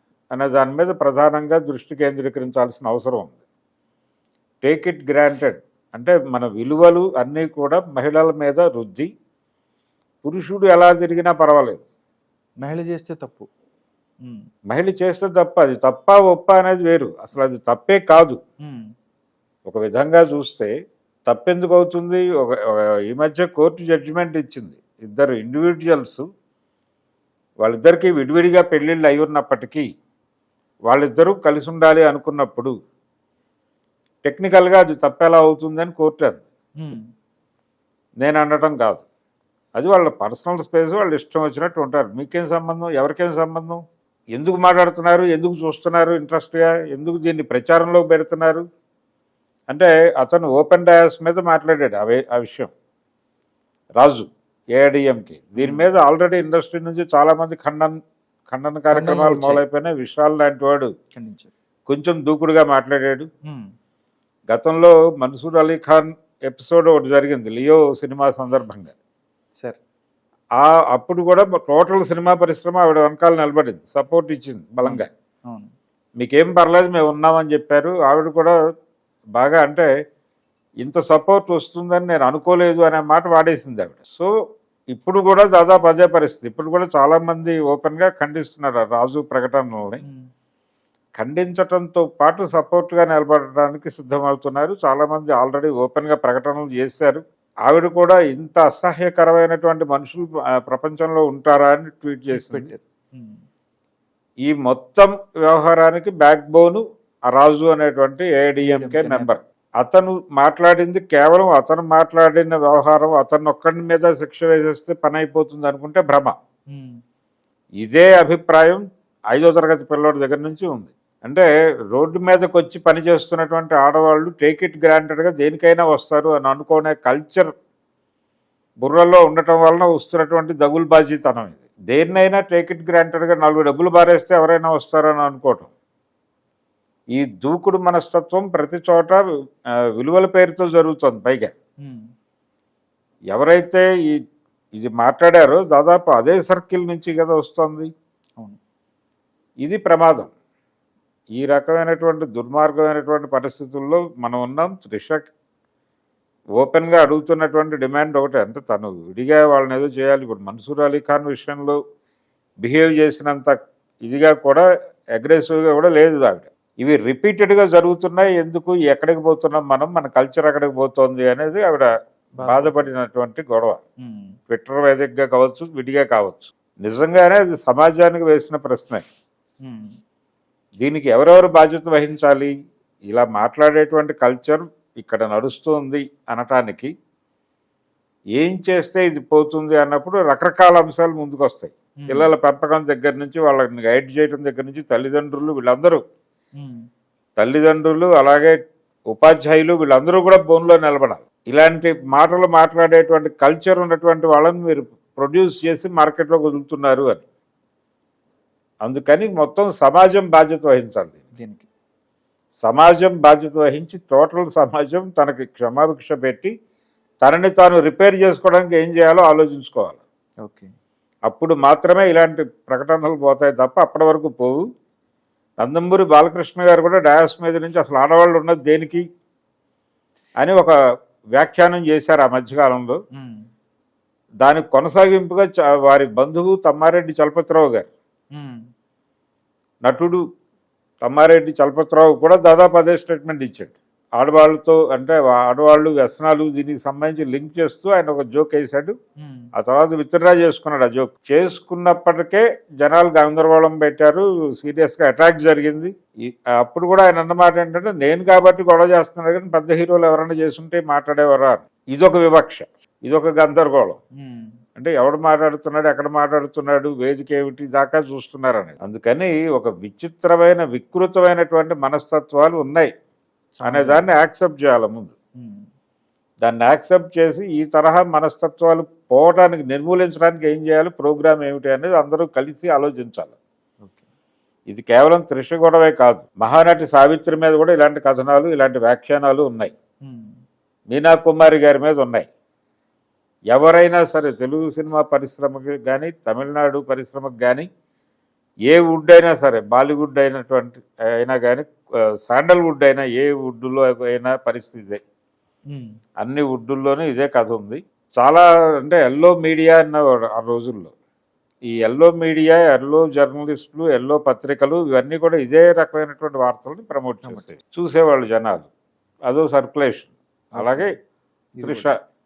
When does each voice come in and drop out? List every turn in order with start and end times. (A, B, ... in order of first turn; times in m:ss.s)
0:00.3-0:03.4 A
0:04.6-0:09.1 A
0:10.2-0:11.8 A
0:12.6-0:13.5 B
0:14.7-0:18.4 A
0:19.7-0:20.7 A
0:21.3-0:26.2 A
0:27.6-0:29.8 A
0:30.9-0:32.7 A
0:34.2-0:36.4 A
0:38.2-0:39.0 A
0:39.8-0:43.8 A
0:44.4-0:48.6 A
0:49.7-0:52.7 A
0:54.0-0:58.0 A
0:55.6-0:55.9 B
0:58.5-1:00.9 A
0:58.9-0:59.6 B
1:01.2-1:01.5 B
1:01.9-1:03.3 A
1:04.5-1:08.9 A
1:10.6-1:15.1 A
1:14.8-1:15.7 B
1:16.2-1:18.5 A
1:19.4-1:19.9 A
1:20.8-1:24.3 A
1:24.9-1:30.0 A
1:30.0-1:30.3 B
1:31.2-1:42.7 A
1:42.3-1:43.4 B
1:44.4-1:56.3 A
1:48.6-1:49.3 B
1:56.7-1:57.0 B
1:57.8-2:07.5 A
2:08.8-2:15.7 A
2:17.1-2:19.2 A
2:20.0-2:21.5 A
2:23.3-2:24.1 A
2:24.8-2:27.9 A
2:29.6-2:30.3 A
2:31.4-2:35.3 A
2:36.6-2:41.8 A
2:42.6-2:43.5 A
2:44.0-2:44.6 A
2:45.2-2:51.9 A
2:52.4-2:52.9 B
2:52.4-2:53.8 A
2:54.0-2:54.4 B
2:54.5-2:59.0 A
2:59.6-2:59.9 B
3:00.8-3:02.5 A
3:03.1-3:06.9 A
3:08.4-3:16.0 A
3:12.0-3:12.3 B
3:16.6-3:16.8 B
3:17.4-3:18.5 A
3:19.1-3:27.2 A
3:28.8-3:31.2 A
3:31.3-3:31.7 B
3:32.6-3:36.5 A
3:37.2-3:40.0 A
3:40.4-3:40.7 B
3:41.3-3:44.6 A
3:45.6-3:49.0 A
3:50.4-3:50.7 A
3:51.4-3:53.0 A
3:53.2-3:53.5 B
3:54.4-3:57.9 A
3:58.3-3:58.6 B
3:59.8-4:00.2 A
4:01.0-4:08.9 A
4:09.2-4:09.5 B
4:09.6-4:15.9 A
4:16.6-4:24.0 A
4:24.2-4:24.5 B
4:24.8-4:32.9 A
4:33.6-4:34.0 B
4:33.6-4:35.1 A
4:35.4-4:35.6 B
4:36.4-4:43.3 A
4:44.7-4:49.7 A
4:50.0-4:50.3 B
4:50.9-4:52.3 A
4:53.5-4:57.7 A
4:58.7-5:01.7 A
5:02.2-5:05.0 A
5:06.2-5:10.9 A
5:11.7-5:18.7 A
5:17.2-5:17.6 B
5:19.3-5:20.9 A
5:20.6-5:20.9 B
5:21.6-5:21.9 B
5:21.6-5:21.9 A